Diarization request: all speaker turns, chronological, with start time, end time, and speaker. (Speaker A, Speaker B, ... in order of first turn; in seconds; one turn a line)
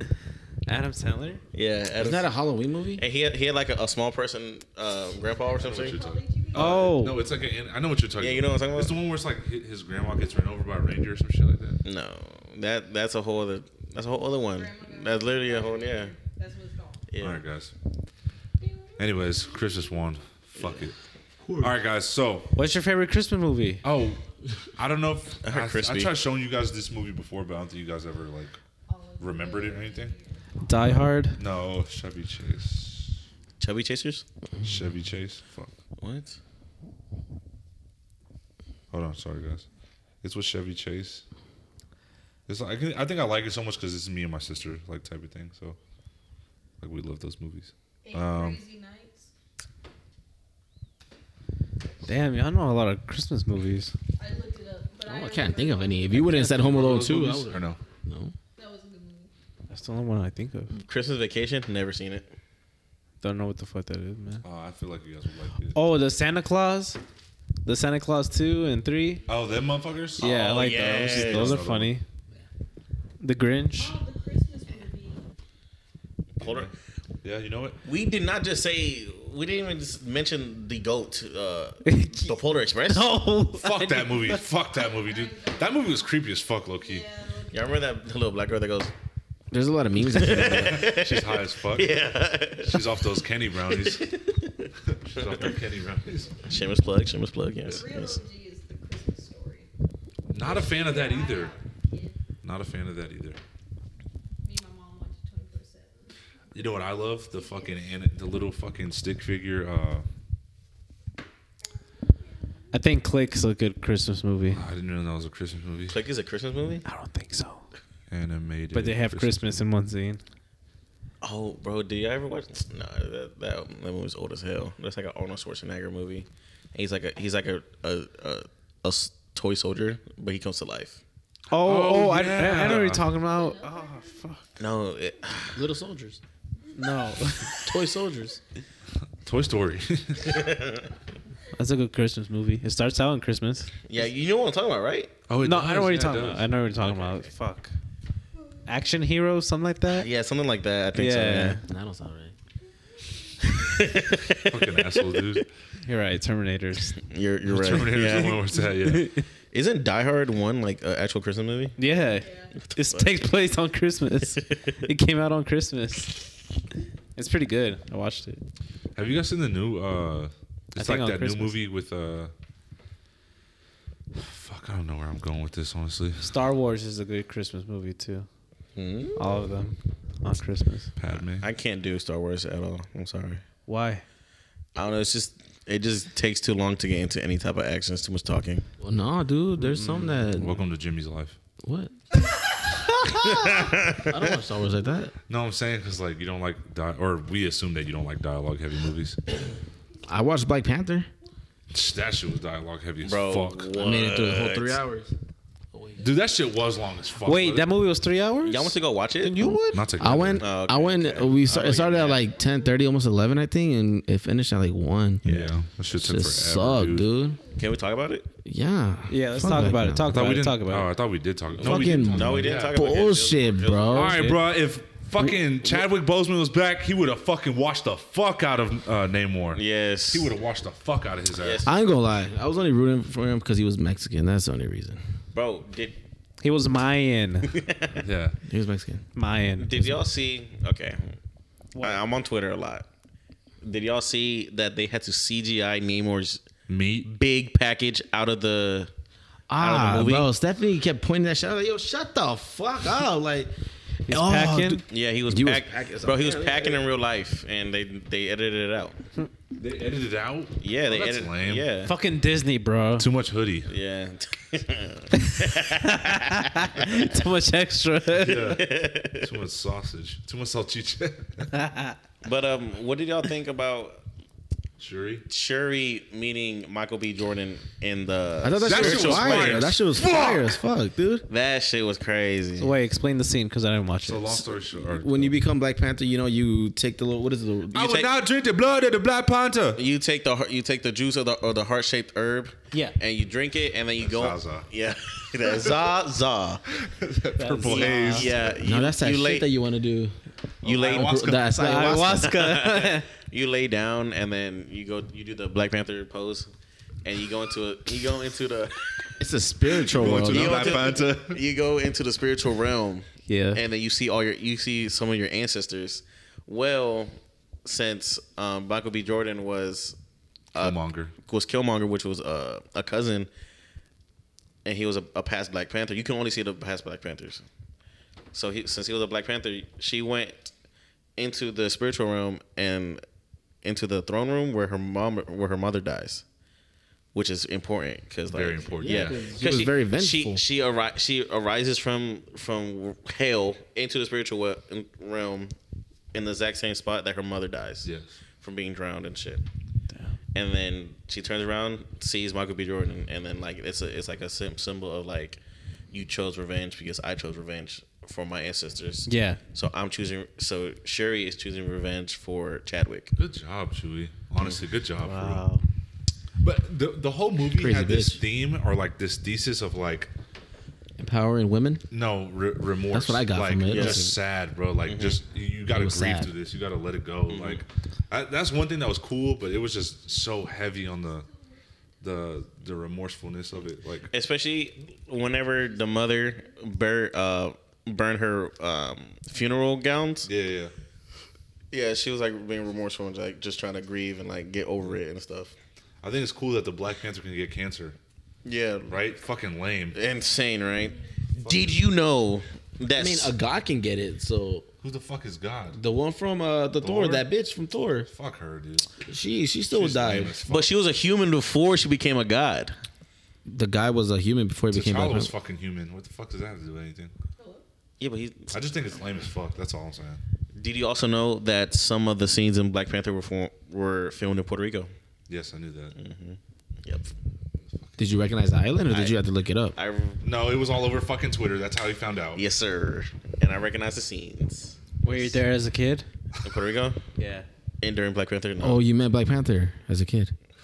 Speaker A: 0.7-1.4
Speaker B: 1.5-2.3
Speaker C: 2.0-3.0
Speaker B: 3.0-6.0
Speaker D: 5.1-7.1
Speaker E: 5.6-11.8
Speaker A: 6.5-7.2
Speaker B: 8.2-8.9
Speaker B: 11.8-16.1
Speaker D: 14.5-17.1
Speaker B: 17.1-17.4
Speaker E: 17.2-17.7
Speaker D: 18.6-19.8
Speaker E: 19.0-20.9
Speaker E: 21.6-22.6
Speaker A: 22.6-23.8
Speaker E: 23.8-24.2
Speaker E: 24.8-28.6
Speaker B: 25.4-26.1
Speaker D: 28.9-30.5
Speaker E: 29.2-30.1
Speaker A: 30.6-31.4
Speaker E: 31.4-33.2
Speaker B: 33.6-34.2
Speaker E: 34.6-35.7
Speaker B: 36.0-36.4
Speaker E: 38.9-39.6
Speaker E: 40.2-41.2
Speaker E: 42.5-45.8
Speaker E: 46.8-48.6
Speaker D: 48.0-49.3
Speaker A: 52.0-53.9
Speaker D: 54.2-56.7
Speaker C: 55.0-58.3
Speaker E: 56.1-57.8
Speaker D: 58.5-59.3
Speaker A: 59.7-60.7
Speaker B: 60.7-62.3
Speaker A: 63.2-64.4
Speaker E: 64.4-65.8
Speaker A: 65.7-67.0
Speaker A: 67.6-69.2
Speaker E: 69.3-71.9
Speaker B: 70.2-71.6
Speaker A: 70.2-72.0
Speaker A: 73.2-74.0
Speaker D: 73.7-75.3
Speaker B: 76.4-76.7
Speaker E: 76.4-76.7
Speaker E: 77.2-77.8
Speaker B: 77.8-83.1
Speaker A: 81.8-84.4
Speaker E: 83.5-87.0
Speaker D: 84.9-86.0
Speaker D: 86.8-87.8
Speaker B: 87.5-88.9
Speaker C: 89.5-91.0
Speaker B: 90.0-92.8
Speaker E: 90.5-92.0
Speaker E: 92.6-94.1
Speaker B: 93.7-95.5
Speaker E: 94.8-96.4
Speaker B: 96.5-98.2
Speaker D: 97.6-99.7
Speaker E: 100.3-101.5
Speaker D: 100.4-102.2
Speaker E: 102.4-103.4
Speaker D: 104.4-106.8
Speaker E: 106.5-110.0
Speaker A: 112.7-114.6
Speaker E: 114.5-116.0
Speaker B: 115.9-116.8
Speaker A: 116.8-117.6
Speaker E: 118.1-119.6
Speaker A: 118.7-120.2
Speaker B: 121.2-131.0
Speaker A: 131.5-134.5
Speaker E: 131.5-133.1
Speaker D: 133.3-134.2
Speaker B: 134.6-135.6
Speaker C: 135.5-136.2
Speaker A: 136.7-137.6
Speaker C: 137.6-138.4
Speaker E: 139.2-140.5
Speaker B: 140.2-140.9
Speaker A: 141.5-143.7
Speaker B: 143.8-145.1
Speaker E: 145.3-146.5
Speaker A: 145.4-147.7
Speaker B: 146.7-147.3
Speaker A: 148.7-150.1
Speaker B: 149.9-151.6
Speaker A: 150.9-151.6
Speaker C: 151.6-152.3
Speaker B: 153.6-155.1
Speaker E: 154.4-155.5
Speaker A: 155.8-157.0
Speaker B: 157.0-158.4
Speaker E: 157.4-159.2
Speaker A: 158.8-159.2
Speaker B: 159.5-161.8
Speaker A: 161.8-166.4
Speaker D: 162.1-162.6
Speaker B: 162.6-163.2
Speaker B: 164.3-164.7
Speaker A: 167.2-168.4
Speaker E: 168.9-172.3
Speaker A: 170.8-171.6
Speaker E: 174.1-176.3
Speaker A: 176.2-178.3
Speaker B: 178.8-179.1
Speaker A: 179.2-180.9
Speaker E: 181.0-181.5
Speaker B: 181.4-183.4
Speaker A: 183.7-184.0
Speaker B: 184.7-188.6
Speaker C: 188.8-190.6
Speaker A: 189.6-190.2
Speaker E: 190.3-191.4
Speaker C: 191.6-191.9
Speaker B: 192.6-194.4
Speaker C: 193.1-195.1
Speaker E: 195.3-199.2
Speaker C: 200.1-201.1
Speaker E: 201.7-203.7
Speaker B: 203.0-204.8
Speaker C: 203.7-205.1
Speaker C: 205.7-206.0
Speaker E: 206.0-207.7
Speaker A: 207.2-209.8
Speaker B: 208.4-209.4
Speaker C: 209.5-215.2
Speaker E: 209.7-210.4
Speaker B: 210.4-212.2
Speaker E: 215.2-217.1
Speaker B: 215.2-215.5
Speaker C: 215.9-217.4
Speaker B: 217.6-218.3
Speaker C: 218.4-220.2
Speaker A: 219.1-220.9
Speaker E: 220.1-222.8
Speaker C: 221.6-224.3
Speaker B: 221.6-224.2
Speaker E: 223.8-231.6
Speaker A: 224.0-224.4
Speaker C: 225.2-225.8
Speaker B: 229.5-230.3
Speaker B: 231.4-231.7
Speaker C: 231.6-235.0
Speaker B: 235.3-235.9
Speaker A: 236.4-237.5
Speaker B: 237.4-238.0
Speaker E: 238.0-238.4
Speaker C: 238.4-239.0
Speaker A: 239.2-240.0
Speaker B: 239.6-241.2
Speaker A: 241.7-242.0
Speaker B: 241.8-242.8
Speaker B: 243.6-246.4
Speaker E: 246.7-247.1
Speaker B: 247.0-248.9
Speaker C: 249.5-253.5
Speaker B: 249.6-250.3
Speaker C: 254.1-256.8
Speaker A: 254.1-254.8
Speaker B: 254.9-259.0
Speaker E: 259.6-261.6
Speaker B: 260.6-261.9
Speaker A: 261.8-263.1
Speaker E: 263.0-263.7
Speaker B: 263.7-267.1
Speaker A: 265.1-268.6
Speaker E: 268.2-271.5
Speaker B: 268.4-269.3
Speaker A: 271.5-271.9
Speaker B: 272.2-274.0
Speaker E: 274.8-275.2
Speaker B: 275.3-279.7
Speaker C: 278.4-281.2
Speaker E: 278.6-280.6
Speaker B: 281.3-282.7
Speaker A: 282.6-284.4
Speaker E: 284.0-285.4
Speaker C: 284.8-288.0
Speaker E: 287.7-289.8
Speaker B: 287.8-288.1
Speaker B: 289.8-296.6
Speaker E: 294.0-294.7
Speaker E: 295.4-295.7
Speaker E: 296.7-298.5
Speaker A: 297.4-298.3
Speaker B: 297.6-299.5
Speaker C: 298.6-300.1
Speaker B: 300.6-301.2
Speaker E: 300.6-301.8
Speaker C: 300.8-302.4
Speaker A: 301.5-303.1
Speaker B: 302.1-306.5
Speaker B: 307.0-308.9
Speaker C: 309.2-310.8
Speaker E: 309.8-311.4
Speaker B: 310.1-317.1
Speaker A: 313.3-313.6
Speaker B: 317.6-320.0
Speaker B: 320.5-323.3
Speaker E: 320.6-321.1
Speaker B: 324.6-327.4
Speaker B: 328.3-330.5
Speaker B: 331.2-333.0
Speaker B: 333.6-336.2
Speaker B: 337.1-345.5
Speaker E: 338.3-339.2
Speaker C: 338.8-340.4
Speaker B: 346.1-347.9
Speaker E: 347.8-348.1
Speaker B: 348.4-349.4
Speaker A: 349.9-350.1
Speaker B: 350.3-363.1
Speaker A: 359.1-359.4
Speaker E: 363.2-365.4
Speaker A: 365.0-365.6
Speaker E: 366.4-370.1
Speaker C: 367.5-368.2
Speaker C: 371.0-371.8
Speaker E: 371.9-381.2
Speaker C: 372.9-374.1
Speaker B: 373.6-374.0
Speaker B: 374.9-375.2
Speaker C: 375.7-376.3
Speaker B: 377.3-377.6
Speaker E: 382.0-384.1
Speaker B: 384.1-390.3
Speaker E: 390.2-390.7
Speaker B: 391.7-395.5
Speaker E: 396.0-397.9
Speaker B: 398.4-398.9
Speaker E: 398.9-400.0
Speaker B: 399.9-403.3
Speaker E: 401.3-401.8
Speaker C: 402.9-404.7
Speaker E: 404.8-405.8
Speaker C: 405.7-408.1
Speaker E: 406.8-407.2
Speaker E: 408.1-408.9
Speaker C: 409.0-410.4
Speaker E: 409.7-410.7
Speaker B: 410.4-412.7
Speaker C: 413.4-415.3
Speaker E: 414.7-417.1
Speaker D: 417.4-417.6
Speaker B: 418.0-418.5
Speaker E: 418.5-420.2
Speaker B: 420.5-424.9
Speaker E: 425.3-425.9
Speaker B: 425.9-427.1
Speaker C: 428.0-429.7
Speaker B: 428.9-429.1
Speaker B: 429.7-430.2
Speaker E: 430.2-432.4
Speaker B: 432.3-435.4
Speaker A: 435.0-436.1
Speaker B: 436.4-437.0
Speaker A: 437.2-437.5
Speaker B: 437.8-438.8
Speaker C: 438.6-440.3